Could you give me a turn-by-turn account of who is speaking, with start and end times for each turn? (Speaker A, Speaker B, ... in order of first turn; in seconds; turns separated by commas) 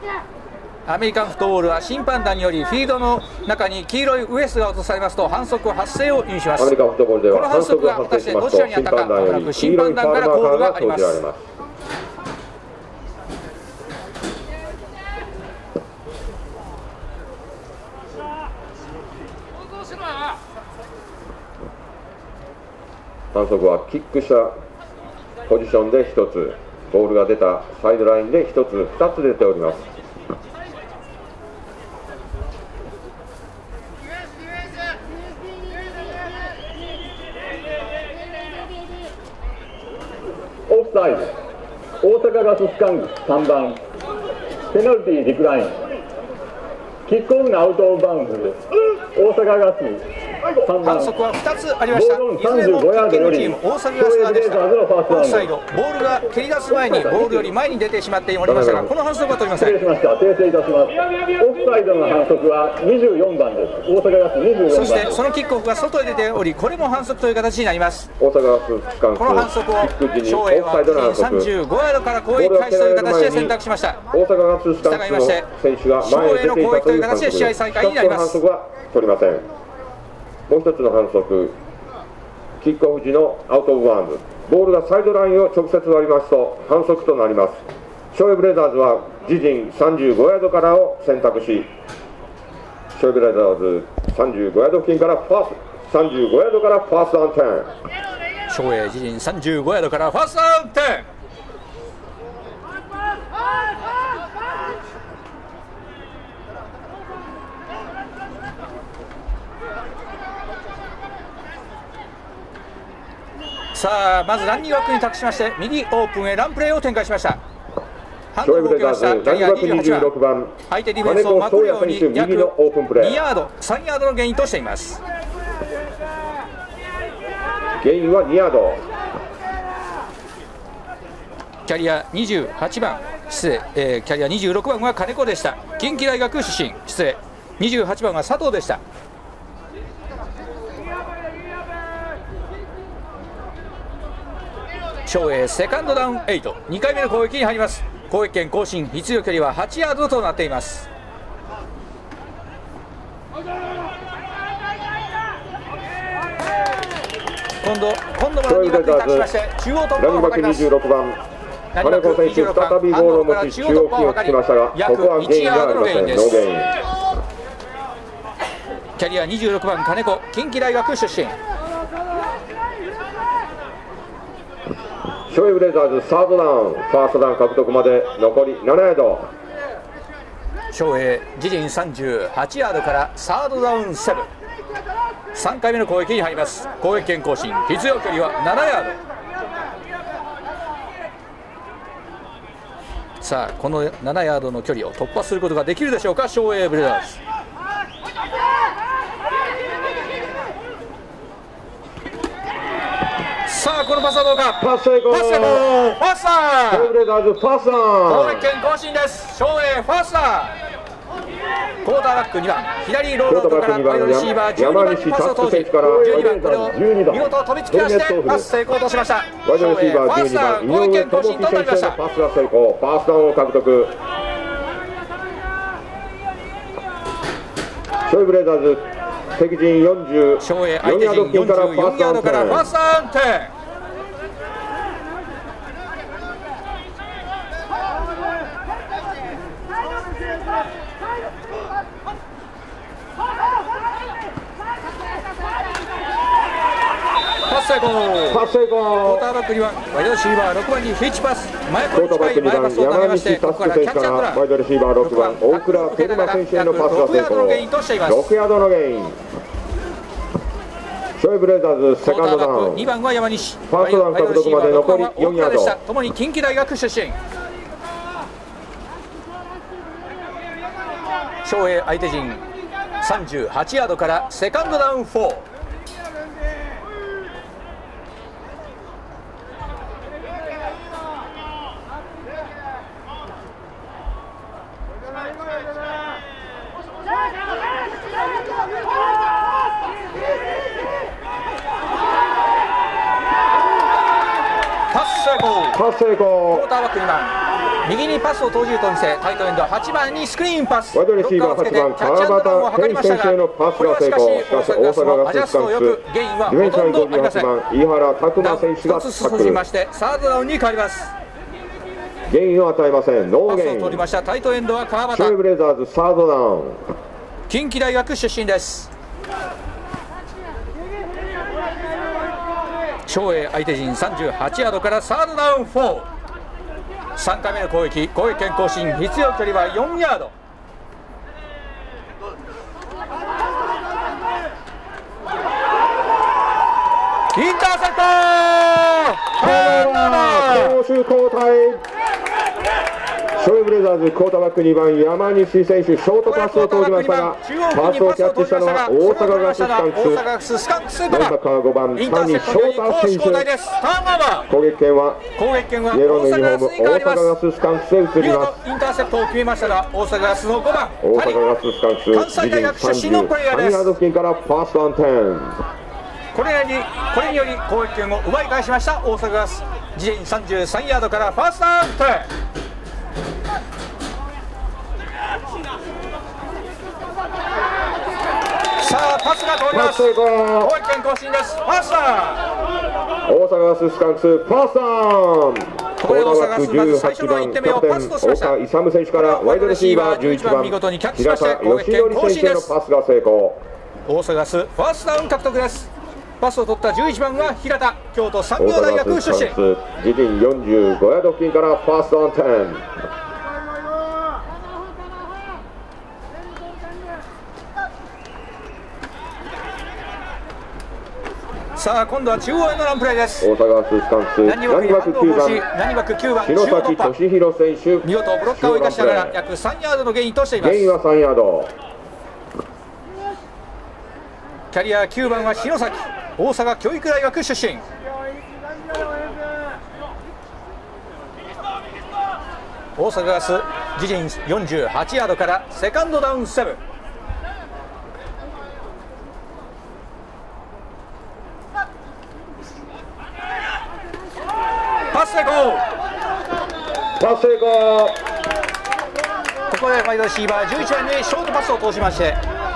Speaker A: 0.8-6.8, Speaker B: 6.6-11.4, Speaker A: 7.3-11.2, Speaker B: 23.3-24.5, Speaker B: 25.5-29.9, Speaker C: 40.7-41.3, Speaker C: 42.0-43.8, Speaker C: 44.7-45.9, Speaker C: 47.0-50.0, Speaker C: 50.5-51.1, Speaker A: 50.8-59.8, Speaker C: 51.9-55.5, Speaker C: 56.7-57.5, Speaker B: 58.4-58.9, Speaker C: 59.6-65.2, Speaker A: 64.7-68.1, Speaker B: 68.2-71.5, Speaker A: 69.2-74.0, Speaker B: 72.3-73.6, Speaker B: 74.1-79.5, Speaker A: 74.8-75.4, Speaker A: 76.0-78.4, Speaker B: 80.5-81.6, Speaker B: 82.6-91.7, Speaker B: 92.9-97.7, Speaker A: 98.5-101.0, Speaker A: 113.7-117.4, Speaker A: 118.3-120.1, Speaker B: 118.4-123.2, Speaker A: 120.7-125.0, Speaker B: 127.8-128.8, Speaker A: 131.7-138.8, Speaker A: 145.1-150.9, Speaker A: 157.6-160.7, Speaker B: 158.4-159.3, Speaker B: 160.0-161.2, Speaker A: 161.7-166.4, Speaker B: 161.8-166.7, Speaker A: 169.0-171.3, Speaker B: 175.3-179.3, Speaker A: 180.7-184.3, Speaker A: 185.3-189.0, Speaker A: 193.2-197.2, Speaker A: 203.4-206.9, Speaker B: 204.6-205.6, Speaker B: 206.7-208.5, Speaker A: 208.1-210.5, Speaker A: 211.8-222.0, Speaker B: 213.2-216.4, Speaker C: 215.8-217.3, Speaker B: 217.7-218.5, Speaker B: 219.4-224.0, Speaker B: 228.1-232.7, Speaker A: 230.4-233.5, Speaker A: 247.5-248.4, Speaker B: 248.3-249.3, Speaker A: 249.0-254.4, Speaker B: 251.9-259.2, Speaker A: 255.0-258.3, Speaker B: 261.2-262.9, Speaker A: 262.0-267.2, Speaker B: 263.7-265.8, Speaker A: 271.4-272.4, Speaker A: 273.0-275.4, Speaker A: 294.9-295.8, Speaker B: 295.7-296.7, Speaker A: 296.5-307.5, Speaker B: 300.9-309.6, Speaker A: 308.4-311.1, Speaker B: 312.3-314.1, Speaker A: 313.5-315.4, Speaker B: 315.1-316.9, Speaker A: 317.5-318.9, Speaker A: 323.1-326.1, Speaker A: 327.1-330.3, Speaker A: 337.3-340.8, Speaker B: 339.4-341.8, Speaker B: 343.4-350.2, Speaker A: 346.2-351.4, Speaker B: 351.1-353.5, Speaker A: 351.9-354.5, Speaker B: 354.5-355.3, Speaker A: 355.4-357.3, Speaker B: 355.9-358.6, Speaker A: 358.2-361.4, Speaker B: 361.0-365.6, Speaker A: 362.1-363.9, Speaker A: 366.3-372.3, Speaker A: 378.8-382.4, Speaker B: 379.7-380.7, Speaker B: 383.2-393.6, Speaker A: 386.0-388.5, Speaker A: 389.1-392.7, Speaker A: 394.1-399.6, Speaker B: 398.6-402.9, Speaker A: 411.8-413.5, Speaker B: 413.4-415.6, Speaker A: 414.4-417.1, Speaker B: 416.4-419.4, Speaker A: 418.0-420.9, Speaker B: 420.6-421.7, Speaker A: 424.7-427.8, Speaker A: 433.0-436.8, Speaker A: 445.1-445.8, Speaker B: 447.2-448.2, Speaker A: 449.7-452.4